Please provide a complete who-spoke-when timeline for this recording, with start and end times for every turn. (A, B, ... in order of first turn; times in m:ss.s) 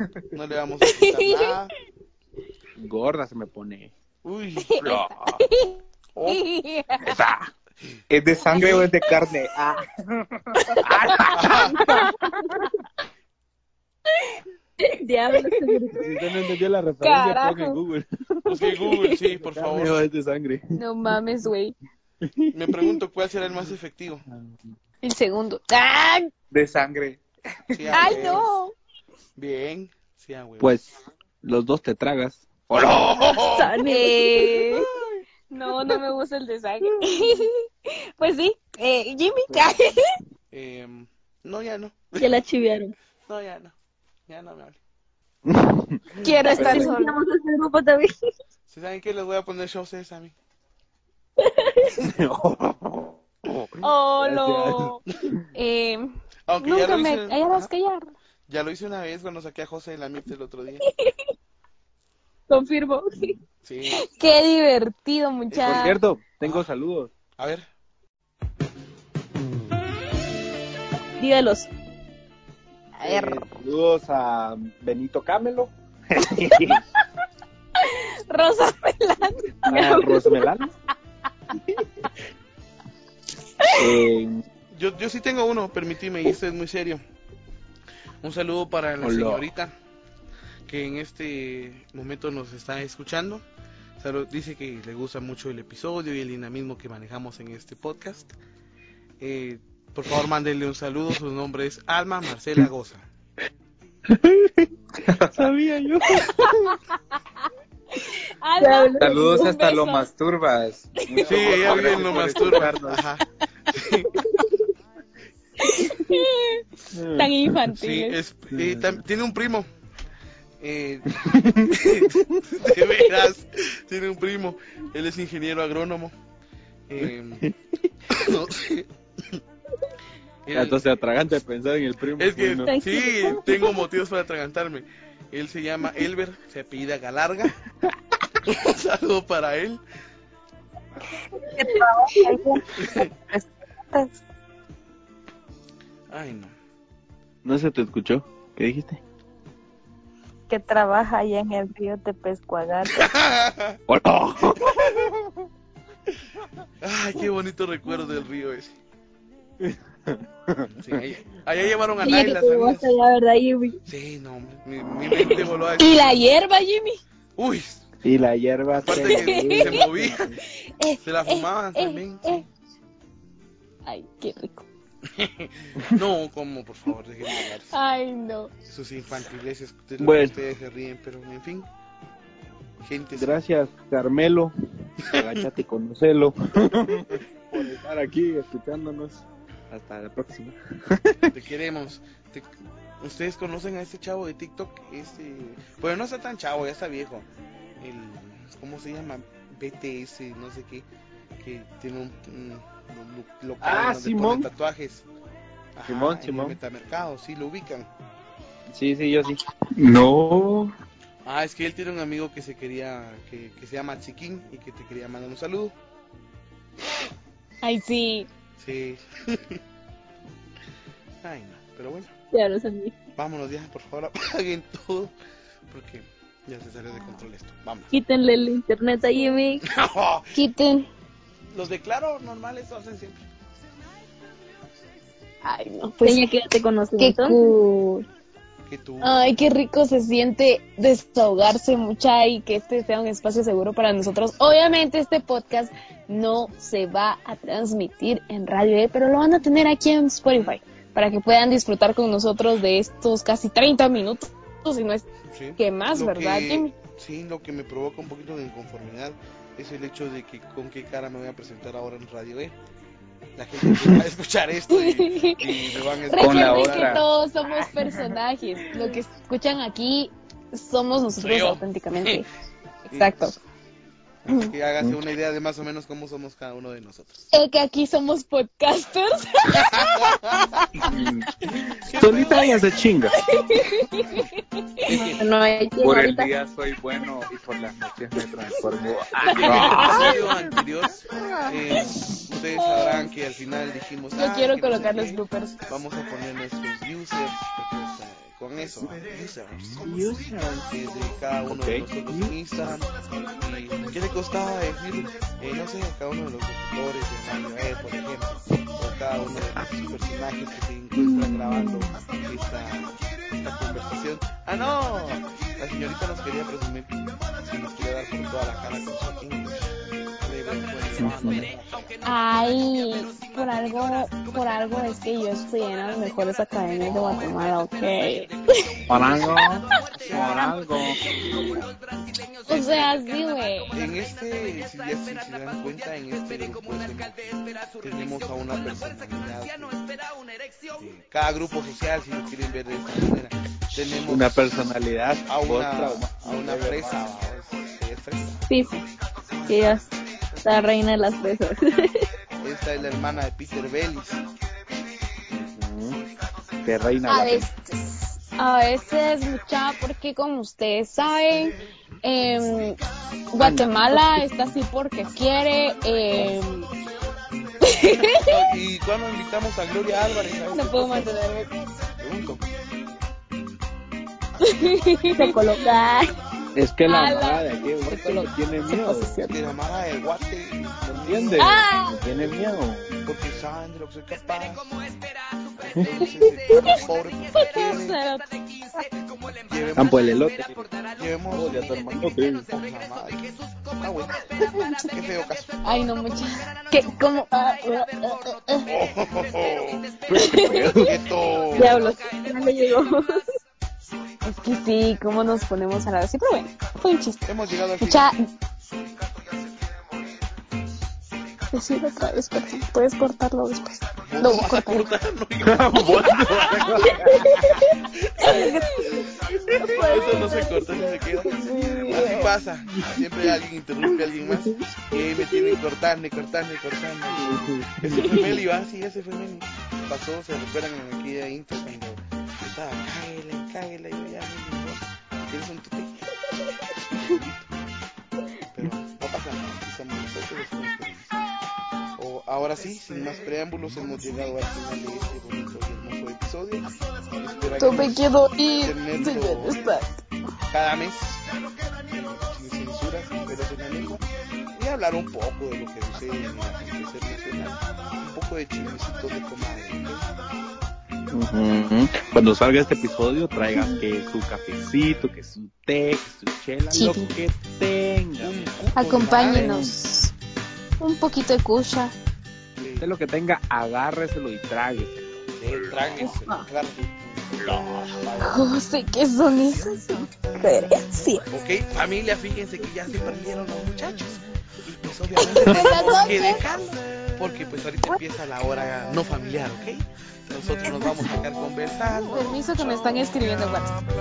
0:00.3-0:01.7 A
0:00.9-0:01.5 B
0:02.8-0:03.9 C
0:04.2-0:04.8 A
0:04.6-0:07.1 B
0:04.8-0:05.4 C
0:06.1-0:06.4 A
0:07.1-0:07.4 C
0:08.1-0:11.0 D
0:08.6-0:08.8 A
0:10.8-0:11.7 C
0:11.3-0:11.8 A
0:14.8-0:16.1 E
0:15.9-0:18.8 C
0:17.0-0:17.8 B
0:18.4-0:20.0 A
0:19.4-0:20.6 C
0:20.8-0:21.8 B
0:22.2-0:23.0 C
0:22.5-0:24.2 A
0:24.3-0:24.6 C
0:25.0-0:26.3 B
0:26.5-0:28.4 D
0:27.7-0:28.5 A
0:27.9-0:28.8 B
0:29.4-0:30.8 A
0:30.6-0:33.3 C
0:32.7-0:33.8 A
0:33.4-0:34.8 E
0:33.8-0:34.8 B
0:35.5-0:40.0 B
0:39.5-0:39.9 C
0:40.5-0:42.4 A
0:42.2-0:42.9 E
0:43.3-0:43.7 A
0:44.3-0:44.8 A
0:45.4-0:46.0 C
0:46.1-0:46.8 A
0:46.2-0:47.2 B
0:46.4-0:48.1 E
0:46.5-0:46.9 C
0:48.7-0:50.3 A
0:51.4-0:51.9 E
0:52.0-0:55.4 C
0:53.8-0:55.0 B
0:55.5-0:58.1 B
0:56.5-0:57.7 A
0:58.5-1:00.8 A
1:02.5-1:03.4 E
1:03.6-1:04.0 A
1:03.9-1:06.0 B
1:05.5-1:06.7 A
1:05.6-1:07.1 C
1:07.4-1:07.6 A
1:11.2-1:11.7 E
1:13.0-1:13.4 B
1:13.0-1:16.8 C
1:17.8-1:20.5 B
1:19.7-1:20.7 C
1:23.6-1:23.9 B
1:23.7-1:24.4 C
1:24.7-1:27.0 A
1:28.2-1:29.7 A
1:29.0-1:29.4 C
1:30.7-1:33.4 A
1:34.0-1:38.3 A
1:39.2-1:43.1 A
1:44.1-1:46.8 C
1:45.1-1:45.4 D
1:46.2-1:46.8 B
1:48.0-1:50.1 B
1:48.6-1:49.5 E
1:49.0-1:53.0 D
1:51.1-1:51.4 B
1:51.2-1:54.2 A
1:52.3-1:52.6 B
1:55.6-1:58.2 B
1:56.9-1:57.6 C
1:57.8-1:59.7 A
1:58.5-1:59.0 C
2:00.6-2:06.1 A
2:01.1-2:02.1 C
2:06.9-2:07.4 A
2:07.0-2:07.5 C
2:08.1-2:09.4 A
2:10.4-2:10.8 A
2:10.5-2:12.7 C
2:12.2-2:17.6 A
2:12.7-2:13.7 E
2:18.4-2:19.8 A
2:21.5-2:24.2 F
2:22.7-2:23.1 A
2:26.1-2:26.5 A
2:27.4-2:29.0 C
2:30.5-2:33.0 F
2:32.9-2:33.8 A
2:33.9-2:35.3 C
2:34.6-2:35.1 A
2:36.8-2:38.8 A
2:39.6-2:40.7 C
2:40.7-2:42.9 A
2:42.0-2:43.8 E
2:43.9-2:46.2 A
2:45.8-2:47.0 B
2:47.4-2:47.9 A
2:48.0-2:50.4 C
2:48.8-2:50.3 A
2:48.9-2:49.8 B
2:50.6-2:52.4 B
2:51.0-2:52.4 A
2:53.8-2:54.6 B
2:55.1-2:57.7 A
2:57.7-2:58.5 B
2:58.7-3:01.7 A
3:00.0-3:00.4 C
3:02.8-3:03.4 A
3:03.2-3:11.3 C
3:05.1-3:05.4 A
3:11.3-3:12.5 A
3:13.0-3:17.2 A
3:17.8-3:20.8 A
3:21.4-3:25.1 A
3:23.6-3:24.5 C
3:25.8-3:27.9 A
3:25.9-3:26.6 C
3:28.7-3:29.4 C
3:29.8-3:30.7 D
3:31.2-3:35.7 A
3:37.6-3:38.3 B
3:38.6-3:39.6 A
3:41.2-3:42.1 A
3:42.3-3:42.9 E
3:43.2-3:45.1 A
3:45.7-3:47.9 A
3:47.9-3:49.6 E
3:49.6-3:50.3 A
3:50.3-3:50.9 B
3:51.5-3:53.2 A
3:55.4-3:56.2 B
3:56.0-3:57.5 E
3:57.0-3:58.0 B
3:58.7-3:59.2 A
3:59.0-4:15.0 B
4:15.3-4:22.5 A
4:15.6-4:16.7 B
4:23.4-4:27.1 A
4:24.7-4:32.2 B
4:26.1-4:27.0 D
4:27.8-4:28.1 D
4:31.2-4:32.2 A
4:32.9-4:33.3 B
4:32.9-4:33.3 A
4:34.2-4:37.3 A
4:37.3-4:40.6 B
4:39.5-4:40.2 A
4:40.8-4:41.3 D
4:41.7-4:43.2 C
4:41.9-4:42.7 A
4:43.3-4:45.0 B
4:44.8-4:45.2 A
4:44.9-4:46.3 E
4:45.8-4:50.1 D
4:49.3-4:59.9 A
4:49.4-4:51.9 C
4:49.4-4:50.0 B
4:51.9-4:53.1 B
4:54.1-4:55.5 B
4:59.8-5:00.7 C
5:00.7-5:19.7 A
5:01.5-5:02.7 C
5:11.0-5:12.0 B
5:20.2-5:22.0 A
5:21.0-5:21.5 C
5:22.0-5:28.7 B
5:28.6-5:30.5 A
5:28.9-5:31.0 C
5:29.7-5:30.4 B
5:31.0-5:31.5 B
5:32.4-5:33.7 B
5:32.5-5:33.0 A
5:33.7-5:39.8 A
5:40.7-5:44.6 A
5:44.0-5:47.0 C
5:45.2-5:48.5 A
5:48.5-5:48.8 E
5:49.3-5:50.6 A
5:49.5-5:49.8 E
5:50.4-5:52.1 E
5:52.4-5:54.2 A
5:55.3-5:56.0 C
5:56.6-5:57.5 C
5:57.0-6:02.8 B
6:03.3-6:06.7 B
6:03.4-6:04.2 C
6:07.6-6:08.3 B
6:08.2-6:11.2 A
6:10.5-6:11.5 B
6:12.0-6:12.4 A
6:14.4-6:15.6 B
6:15.1-6:16.1 E
6:16.5-6:19.1 C
6:16.8-6:19.4 B
6:19.3-6:21.6 A
6:20.8-6:22.9 C
6:21.4-6:22.0 B
6:23.0-6:24.9 A
6:25.6-6:28.0 A
6:26.5-6:26.8 B
6:27.3-6:28.3 B
6:29.4-6:35.6 A
6:29.7-6:30.7 C
6:31.3-6:32.5 C
6:35.6-6:38.7 B
6:38.6-6:40.0 A
6:40.1-6:41.0 C
6:40.1-6:40.8 B
6:40.5-6:41.9 A
6:41.5-6:43.2 E
6:44.2-6:48.2 B
6:47.2-6:48.1 A
6:51.5-6:54.8 B
6:54.0-6:57.0 A
6:55.4-6:57.6 C
6:57.1-6:57.6 B
6:58.0-6:58.5 A
6:58.2-6:58.6 B
6:58.2-7:01.0 E
6:59.5-7:16.2 A
6:59.9-7:02.3 B
7:02.7-7:03.0 C
7:07.1-7:08.4 C
7:16.9-7:17.6 A
7:18.5-7:21.2 A
7:22.0-7:28.0 A
7:27.6-7:30.0 B
7:28.6-7:29.7 A
7:30.5-7:31.2 A
7:31.9-7:34.0 A
7:34.5-7:40.1 A
7:41.1-7:49.8 C
7:43.5-7:43.8 B
7:46.7-7:47.1 B
7:48.2-7:49.6 A
7:48.7-7:50.1 B
7:50.8-7:51.9 B
7:52.6-7:52.9 A
7:52.8-7:55.2 C
7:55.4-7:58.5 A
7:56.0-7:56.4 B
7:58.2-8:01.3 B
8:01.3-8:13.1 A
8:05.2-8:06.4 B
8:12.1-8:13.8 B